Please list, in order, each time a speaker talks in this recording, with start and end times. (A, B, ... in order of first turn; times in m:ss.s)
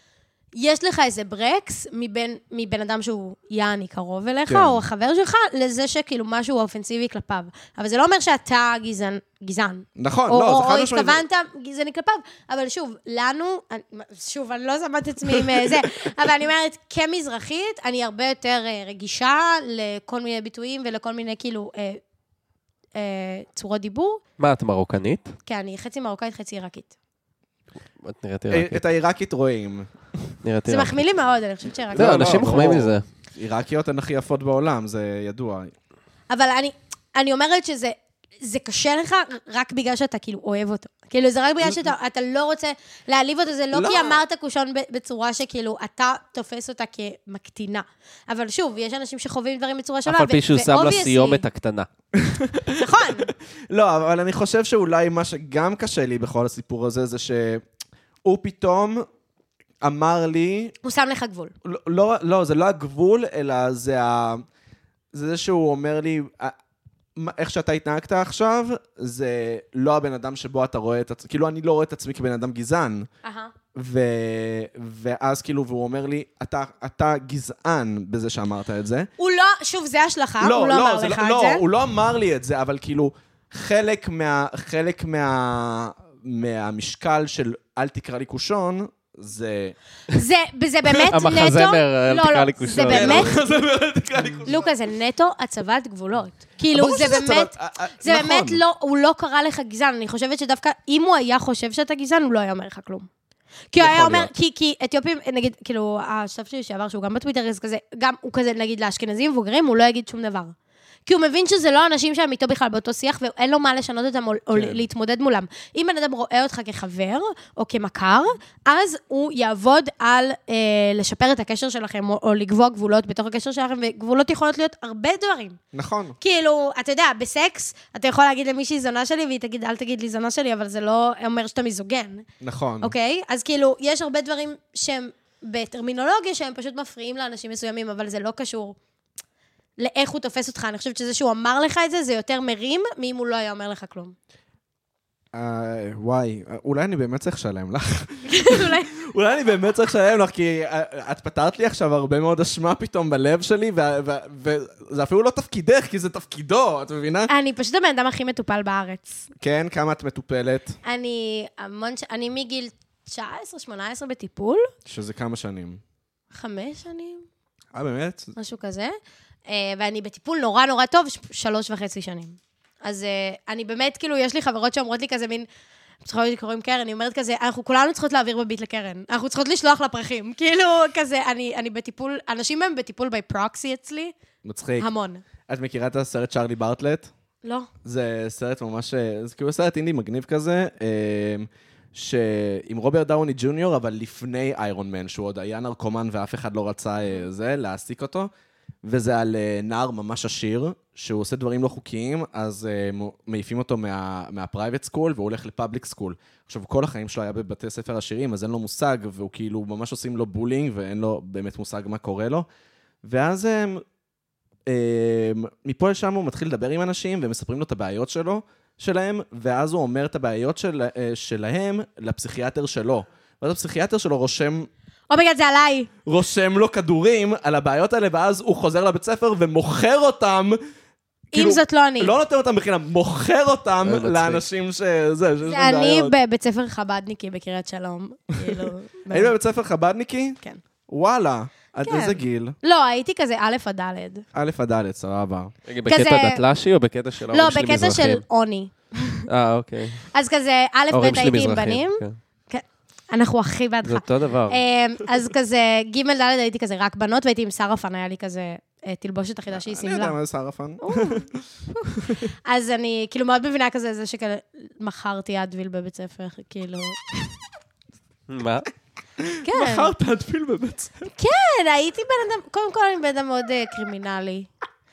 0:00.6-0:22.0 A
0:04.5-0:04.8 B
0:10.0-0:11.2 B
0:23.0-0:24.2 A
0:24.4-0:25.3 C
0:25.5-0:26.9 A
0:28.0-0:28.8 C
0:28.5-0:30.4 B
0:30.4-0:31.0 C
0:30.7-0:32.4 A
0:31.9-0:33.0 C
0:31.9-0:35.7 B
0:36.3-0:51.4 A
0:43.7-0:44.2 B
0:50.1-0:51.9 C
0:52.2-0:57.6 B
0:52.8-0:53.3 A
0:58.2-0:59.1 B
0:59.8-1:00.8 B
1:00.8-1:01.5 A
1:01.6-1:04.4 B
1:05.1-1:06.6 B
1:07.2-1:13.1 B
1:13.2-1:13.5 A
1:13.8-1:19.1 B
1:19.2-1:21.6 A
1:20.4-1:29.8 B
1:30.1-1:33.4 A
1:31.0-1:33.4 C
1:32.9-1:34.7 B
1:34.5-1:43.1 A
1:36.7-1:38.6 B
1:43.7-1:50.5 A
1:43.8-1:44.3 B
1:51.1-2:05.6 A
2:05.7-2:06.2 B
2:06.2-2:12.3 A
2:12.4-2:12.9 B
2:12.8-2:18.8 A
2:19.8-2:24.2 A
2:25.3-2:37.3 B
2:28.3-2:28.9 A
2:37.3-2:39.3 A
2:39.4-2:40.8 B
2:40.8-2:44.7 A
2:44.9-2:45.8 B
2:46.3-2:47.2 A
2:47.7-2:48.4 B
2:48.4-2:48.9 A
2:49.5-2:55.5 A
2:56.0-3:04.1 A
3:04.4-3:04.9 B
3:04.8-3:05.2 A
3:05.5-3:07.1 B
3:07.4-3:07.7 A
3:07.8-3:18.3 B
3:18.8-3:32.5 B
3:33.0-3:33.8 B
3:34.7-3:44.7 B
3:45.1-3:45.9 A
3:46.0-3:50.6 B
3:51.3-3:52.1 A
3:51.3-3:56.2 B
3:53.8-3:54.4 C
3:55.4-3:59.3 A
3:58.4-4:02.6 B
4:01.8-4:04.2 A
4:04.3-4:05.5 B
4:05.7-4:08.2 C
4:05.9-4:06.4 A
4:07.3-4:09.2 A
4:09.3-4:10.1 C
4:10.1-4:20.2 A
4:10.9-4:12.2 C
4:13.8-4:14.6 C
4:19.5-4:21.4 B
4:20.8-4:27.2 A
4:28.3-4:28.7 C
4:29.2-4:31.1 B
4:29.4-4:29.9 A
4:31.2-4:34.5 A